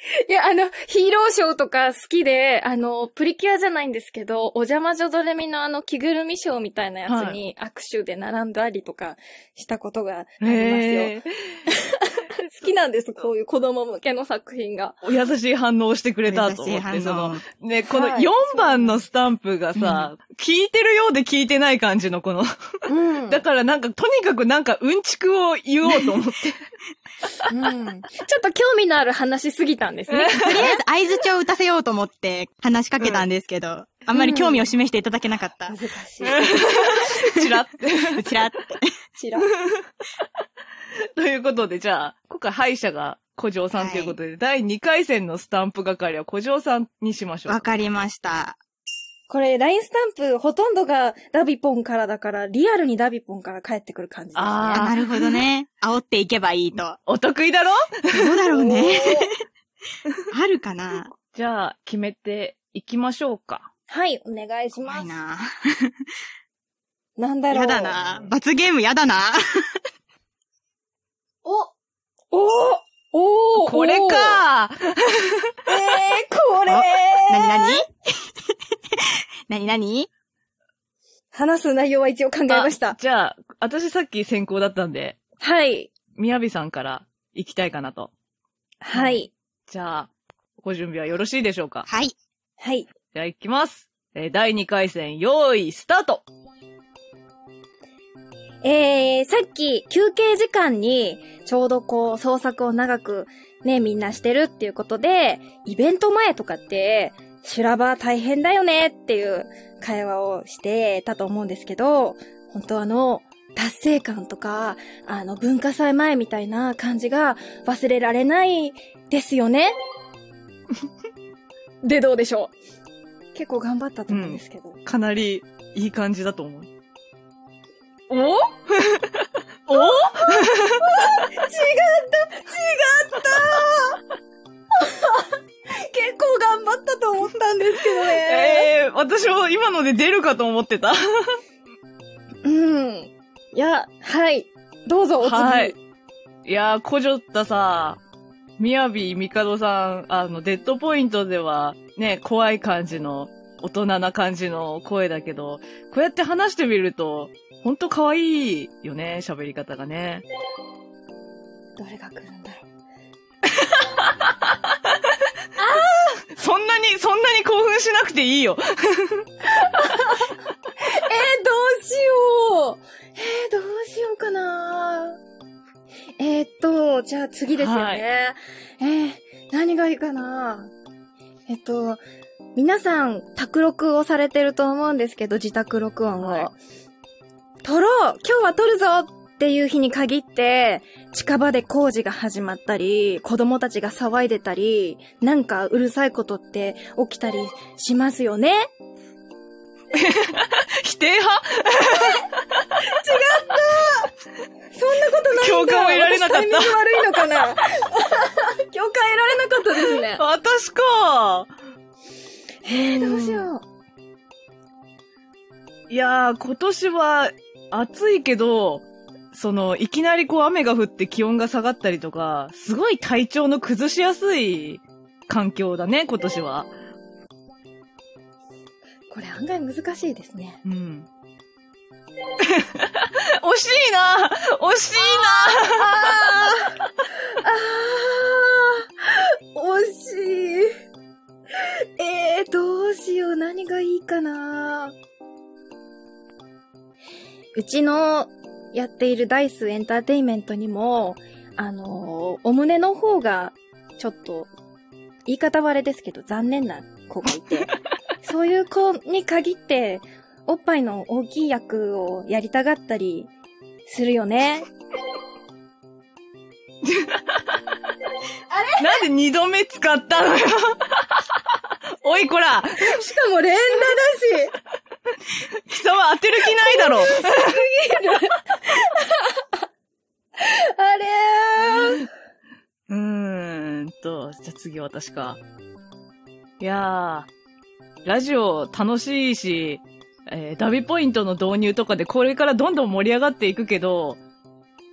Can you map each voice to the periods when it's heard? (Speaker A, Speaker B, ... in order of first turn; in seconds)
Speaker A: 0.2-15.0, 17.9-19.0, 22.9-23.4, 27.5-30.8, 34.1-34.7, 35.7-36.5, 39.2-39.5, 49.3-54.9, 58.5-59.3, 63.9-65.1, 67.2-68.0, 71.4-71.7, 72.3-74.4, 75.7-77.8, 81.3-83.0, 85.4-85.9, 88.8-89.3, 92.6-92.9, 98.6-119.7, 121.8-122.5, 123.3-124.8, 129.7-134.0, 134.8-138.7, 142.4-145.8, 161.8-162.6, 165.6-166.2, 169.7-170.2, 170.9-175.2, 176.2-180.7, 181.5-182.0, 182.5-186.6, 187.6-198.7, 201.9-202.2, 202.8-204.1, 204.7-210.2, 212.6-213.6, 229.1-230.6, 235.0-236.7, 237.3-240.7, 242.0-244.9, 247.5-254.5, 255.2-263.3, 263.9-264.7, 268.5-269.0, 272.9-274.5, 276.5-279.4, 280.4-282.1
Speaker B: 7.1-7.4, 10.4-11.5, 15.0-26.6, 30.1-30.7, 33.0-33.2, 36.2-38.3, 41.2-47.7, 54.3-55.4, 57.0-58.2, 61.3-63.7, 73.5-75.3, 82.5-85.2, 86.2-88.1, 88.9-90.1, 90.6-91.8, 93.1-96.2, 124.1-126.7, 128.1-130.8, 138.0-141.3, 145.2-145.7, 146.4-148.0, 148.6-160.2, 163.7-164.3, 166.4-169.3, 177.5-178.0, 186.2-186.5, 199.9-202.6, 205.3-206.8, 209.8-211.5, 212.9-213.4, 215.9-226.7, 230.6-231.1, 232.4-236.3, 266.8-267.4, 268.8-271.2, 272.0-272.9, 275.7-277.5, 281.6-282.0, 282.9-285.4, 286.6-287.3, 288.0-294.2
Speaker C: 16.3-17.4, 19.8-20.1, 30.4-35.8, 38.1-38.9, 43.7-44.2, 47.5-48.6, 54.7-57.0, 58.1-59.4, 60.3-61.1, 64.8-65.9, 67.5-69.4, 76.7-77.9, 79.5-80.1, 91.9-92.2